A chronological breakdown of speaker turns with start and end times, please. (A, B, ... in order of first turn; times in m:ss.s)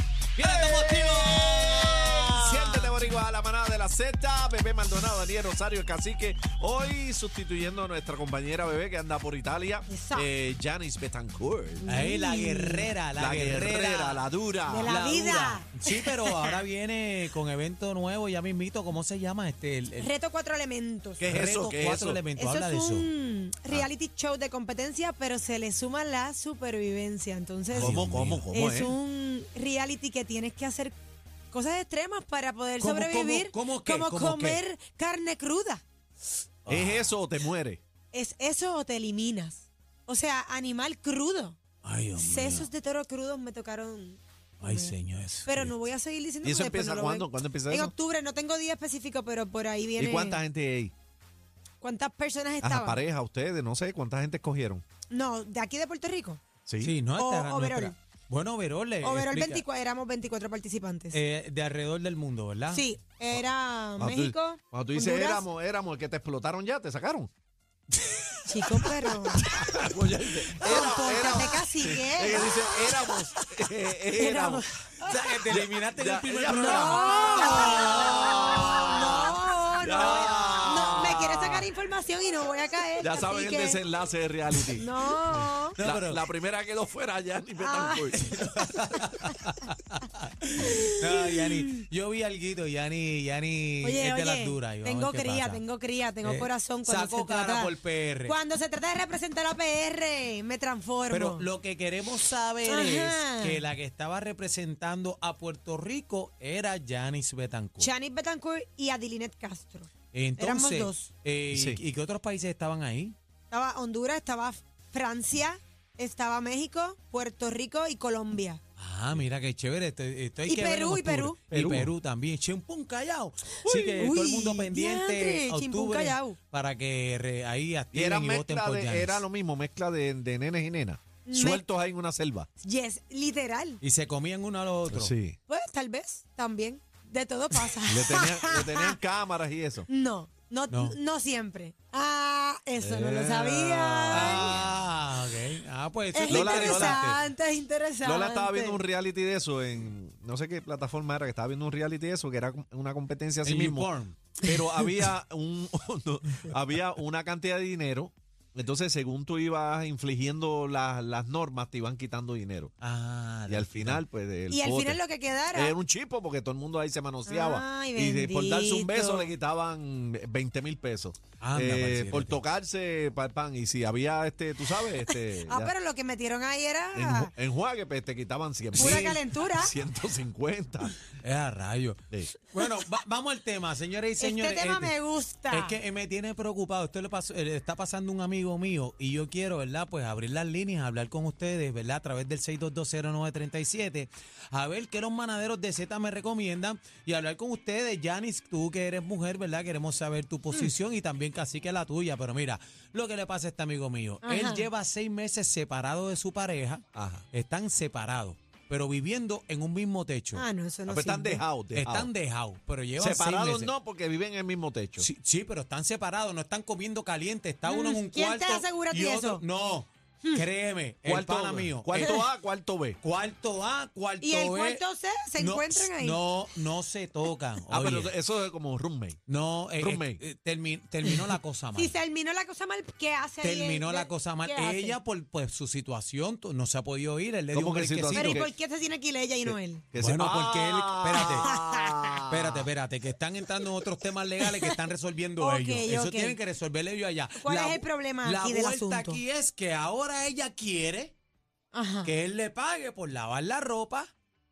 0:00.4-0:03.0 A
0:00.4-0:11.9 B
0:09.9-0:10.3 C
0:11.8-0:12.9 C
0:11.8-0:14.3 A
0:13.2-0:15.0 B
0:14.6-0:16.4 C
0:14.8-0:20.1 A
0:20.0-0:21.2 C
0:21.2-0:22.2 B
0:21.3-0:23.1 A
0:22.4-0:28.0 C
0:27.7-0:28.4 A
0:27.8-0:29.0 B
0:28.5-0:31.0 C
0:31.5-0:35.8 C
0:32.8-0:34.6 A
0:36.6-0:37.2 A
0:36.7-0:37.8 B
0:38.1-0:41.6 C
0:41.8-0:42.7 A
0:42.2-0:50.4 C
0:44.6-0:45.7 A
0:46.4-0:47.9 B
0:50.0-0:50.9 B
0:51.8-0:53.0 C
0:52.6-0:54.8 B
0:55.1-0:56.4 C
0:56.6-0:57.0 B
0:56.8-0:59.6 A
0:57.1-0:57.9 C
0:59.0-1:01.2 C
1:01.1-1:02.8 A
1:02.7-1:05.4 C
1:04.0-1:07.3 B
1:08.0-1:09.9 A
1:08.5-1:09.4 C
1:09.4-1:14.6 B
1:10.5-1:12.9 C
1:14.1-1:14.9 C
1:15.0-1:21.3 A
1:15.4-1:21.6 B
1:16.5-1:23.8 C
1:23.0-1:24.9 B
1:24.7-1:25.8 C
1:25.3-1:26.3 A
1:25.8-1:28.2 B
1:27.6-1:29.0 C
1:28.1-1:35.6 A
1:30.6-1:31.8 C
1:33.8-1:41.5 C
1:36.2-1:38.4 A
1:41.1-1:47.9 A
1:42.6-1:43.6 C
1:47.8-1:51.1 C
1:50.1-1:53.2 A
1:51.5-1:51.8 B
1:53.5-1:58.6 C
1:58.8-2:09.2 A
2:00.4-2:01.4 C
2:01.5-2:01.9 B
2:03.6-2:06.4 C
2:07.9-2:12.5 B
2:11.2-2:11.6 C
2:12.6-2:13.8 C
2:13.8-2:15.1 A
2:14.9-2:15.4 B
2:15.5-2:19.0 C
2:17.8-2:19.9 B
2:19.9-2:24.7 C
2:20.7-2:21.0 A
2:22.8-2:24.7 B
2:24.1-2:27.2 A
2:26.1-2:28.8 C
2:26.3-2:27.0 B
2:28.0-2:42.7 B
2:33.4-2:34.2 A
2:42.8-2:44.0 A
2:43.5-2:45.0 B
2:44.5-2:45.7 C
2:45.5-2:55.7 B
2:47.3-2:49.3 C
2:51.4-2:52.4 A
2:55.0-2:57.3 C
2:56.9-3:01.0 B
2:58.7-2:59.7 C
2:58.8-2:59.2 A
3:01.2-3:04.9 A
3:04.2-3:05.8 C
3:05.5-3:30.4 A
3:24.2-3:24.7 C
3:26.9-3:27.2 B
3:30.3-3:31.4 C
3:30.9-3:32.1 B
3:31.7-3:33.7 A
3:33.0-3:35.1 B
3:35.0-3:42.2 A
3:37.6-3:39.4 C
3:41.0-3:43.0 B
3:42.0-3:42.3 C
3:43.0-3:44.8 A
3:44.2-3:46.2 C
3:45.4-3:48.1 A
3:47.7-3:49.2 B
3:49.3-3:51.9 A
3:49.8-3:50.2 B
3:51.7-3:55.0 C
3:53.4-3:58.5 A
3:57.5-3:58.5 B
3:58.1-3:59.8 C
3:59.4-4:02.7 B
4:00.0-4:01.5 A
4:01.2-4:02.2 C
4:02.2-4:11.1 A
4:04.4-4:04.7 C
4:05.4-4:06.4 C
4:07.4-4:09.2 C
4:11.7-4:12.1 C
4:12.0-4:14.1 A